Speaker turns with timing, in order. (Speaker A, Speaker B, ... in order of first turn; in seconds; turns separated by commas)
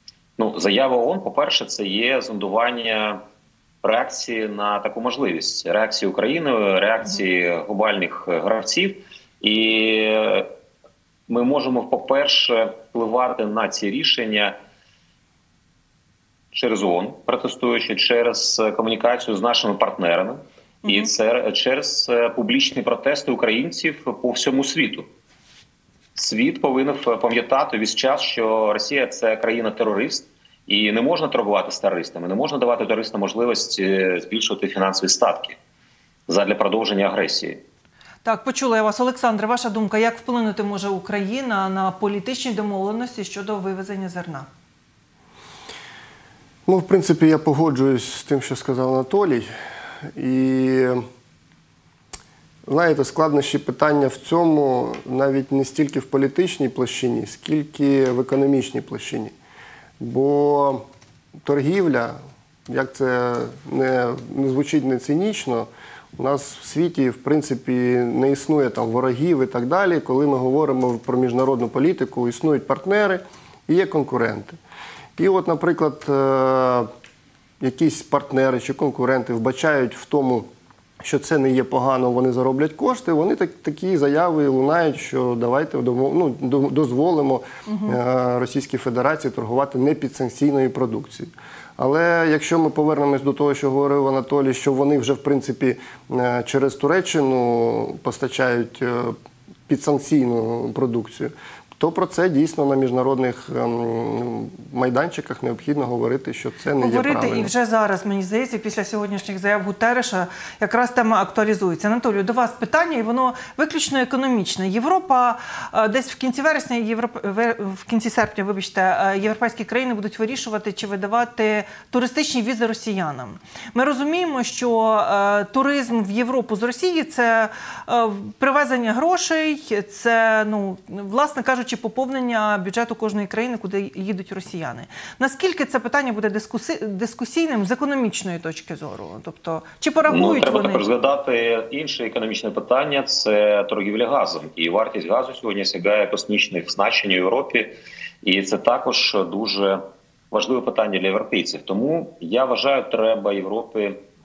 Speaker A: 0.4-3.2, Speaker A: 3.8-10.5, Speaker A: 11.3-14.5, Speaker A: 16.5-25.1, Speaker B: 20.8-21.1, Speaker A: 26.1-35.6, Speaker A: 36.3-37.6, Speaker B: 38.2-44.5, Speaker C: 46.7-49.5, Speaker C: 50.1-51.0, Speaker C: 52.7-59.3, Speaker C: 60.0-60.8, Speaker C: 61.4-62.2, Speaker C: 62.7-74.6, Speaker C: 75.2-76.9, Speaker C: 77.6-80.5, Speaker C: 81.0-99.1, Speaker B: 87.7-88.0, Speaker C: 99.7-107.5, Speaker B: 106.8-140.8, Speaker A: 140.1-147.7, Speaker A: 148.2-149.8, Speaker A: 150.3-154.0